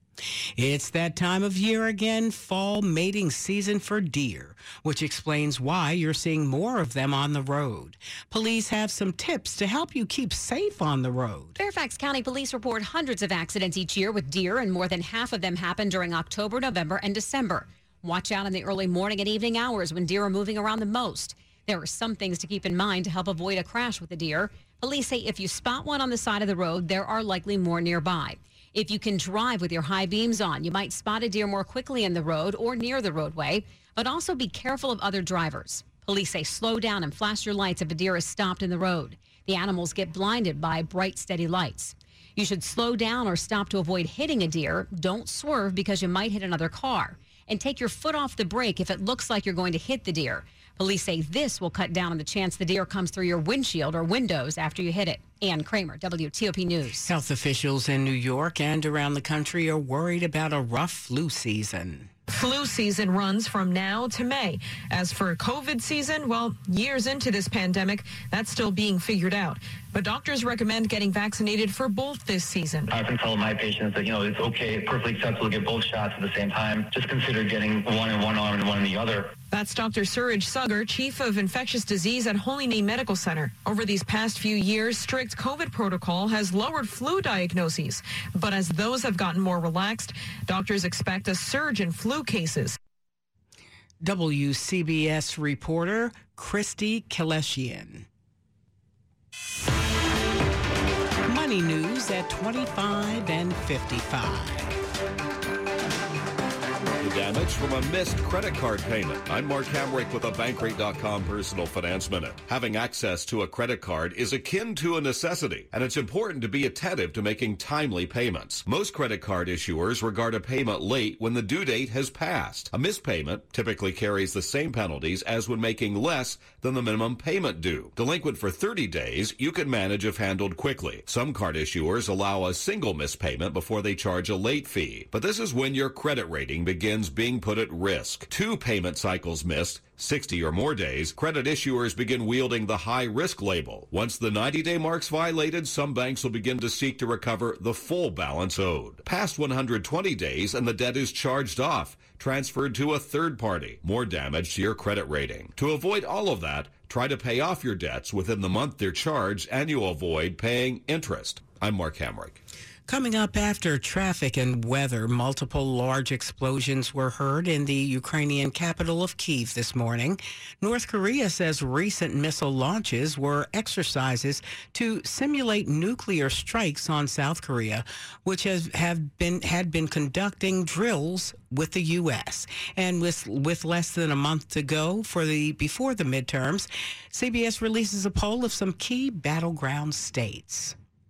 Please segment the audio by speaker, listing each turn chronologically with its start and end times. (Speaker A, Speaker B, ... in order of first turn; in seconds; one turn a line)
Speaker A: 0.6-11.6
Speaker B: 11.6-57.1
Speaker A: 57.0-62.1
Speaker C: 62.3-72.9
Speaker D: 72.9-79.3
Speaker C: 79.5-92.8
Speaker A: 94.0-98.0
Speaker A: 101.3-104.7
Speaker E: 107.0-162.4
Speaker A: 162.9-190.8